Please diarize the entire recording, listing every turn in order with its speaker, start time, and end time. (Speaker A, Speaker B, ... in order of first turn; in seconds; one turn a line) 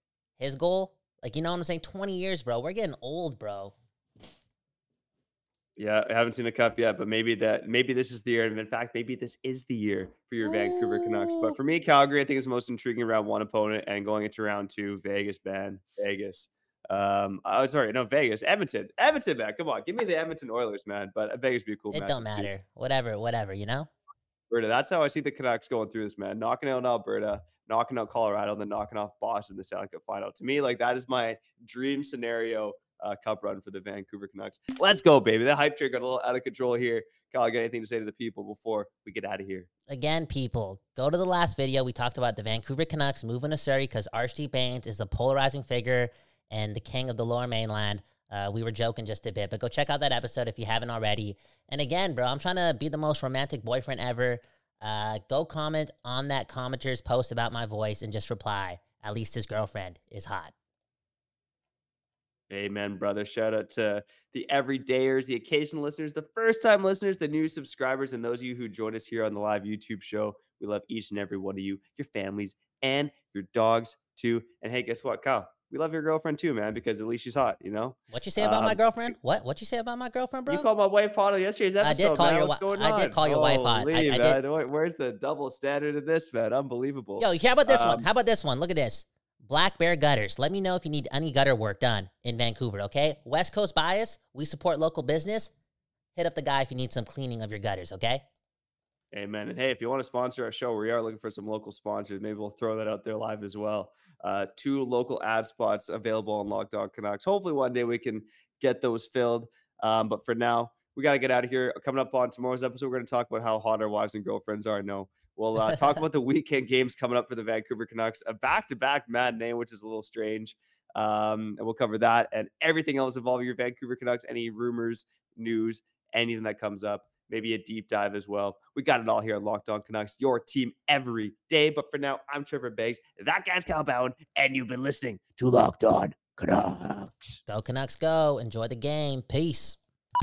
Speaker A: 0.4-3.7
Speaker B: 5.8-22.5
Speaker A: 10.4-11.5
Speaker A: 21.9-23.9
Speaker B: 24.5-39.7
Speaker A: 39.9-60.5
Speaker B: 62.5-79.2
Speaker A: 78.1-80.7
Speaker B: 80.5-88.1
Speaker A: 81.8-84.4
Speaker A: 87.2-95.5
Speaker A: 96.2-98.2
Speaker B: 99.1-137.4
Speaker A: 137.5-139.8